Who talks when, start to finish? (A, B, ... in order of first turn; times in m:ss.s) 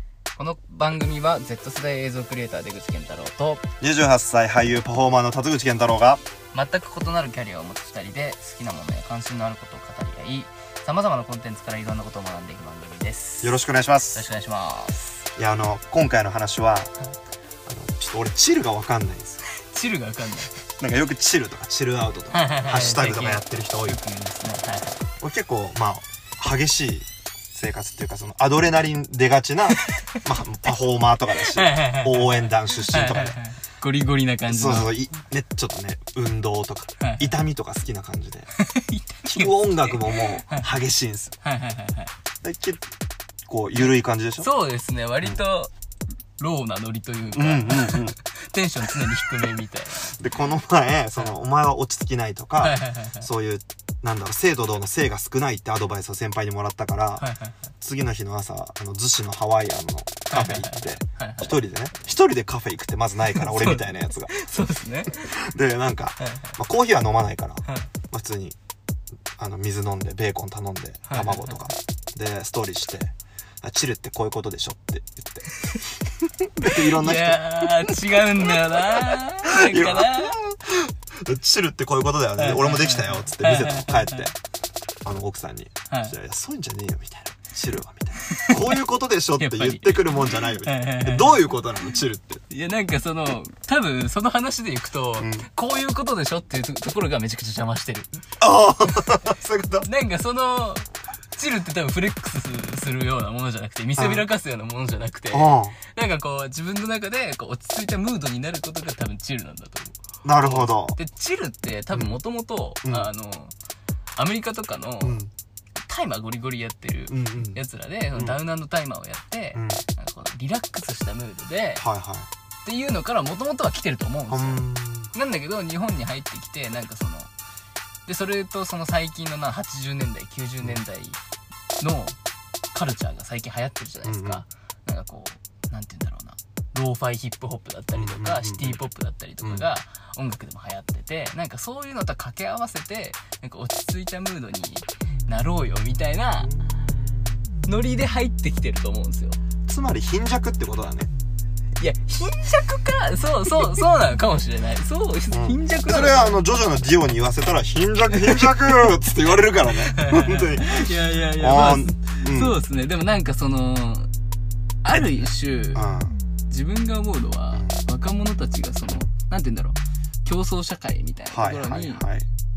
0:00.4-0:03.6 A
0:03.8-0:06.2 B
0:06.5-0:13.6 A
0:13.4-0:14.2 B
0:14.1-0:15.1 A
0:15.4-0:16.9 B
0:17.7-0:19.4 B
0:19.5-0:20.5 A
0:20.7-0:24.0 B
0:22.3-0:25.0 A
0:25.2-0:33.4 B
0:29.8-0:30.2 A
0:31.5-0:34.9 A
0:34.5-0:38.5 B
0:37.0-0:37.3 A
0:38.6-0:40.7 A
0:39.2-0:41.3 B
0:41.4-0:42.1 A
0:42.4-0:42.8 B
0:43.5-0:44.5 B
0:43.8-0:45.7 A
0:46.4-0:50.1 A
0:47.3-0:48.2 B
0:50.1-0:57.3 B
0:52.6-0:53.3 A
0:57.2-0:57.6 A
0:57.8-1:04.4 B
1:00.3-1:01.6 A
1:03.3-1:05.3 A
1:05.1-1:08.6 B
1:06.2-1:06.5 A
1:09.4-1:15.5 B
1:11.1-1:11.7 A
1:16.4-1:24.3 B
1:16.6-1:20.4 A
1:22.4-1:24.3 A
1:25.0-1:32.4 B
1:25.9-1:26.2 A
1:28.2-1:28.8 A
1:29.4-1:31.9 A
1:32.5-1:38.1 A
1:35.2-1:35.5 B
1:38.4-1:39.9 B
1:39.8-1:53.5 A
1:44.0-1:44.3 B
1:45.3-1:45.8 B
1:50.2-1:51.0 B
1:51.9-1:52.2 B
1:52.8-1:53.1 B
1:54.2-1:55.2 A
1:55.0-1:55.3 B
1:55.9-2:01.8 A
1:57.1-1:57.6 B
1:58.1-1:58.4 B
1:59.6-1:59.8 B
2:01.8-2:02.3 B
2:02.6-2:07.3 A
2:04.3-2:05.1 B
2:08.1-2:11.2 A
2:11.8-2:12.2 A
2:12.7-2:26.5 A
2:14.0-2:14.4 B
2:17.9-2:18.8 B
2:19.4-2:19.7 B
2:26.4-2:26.8 B
2:27.7-2:29.4 A
2:29.7-2:31.1 B
2:31.8-2:36.4 A
2:35.3-2:42.6 B
2:38.2-2:38.5 A
2:39.9-2:44.1 A
2:44.8-2:45.9 A
2:44.9-2:46.2 B
2:46.5-2:52.1 A
2:47.5-2:47.8 B
2:51.3-2:52.3 B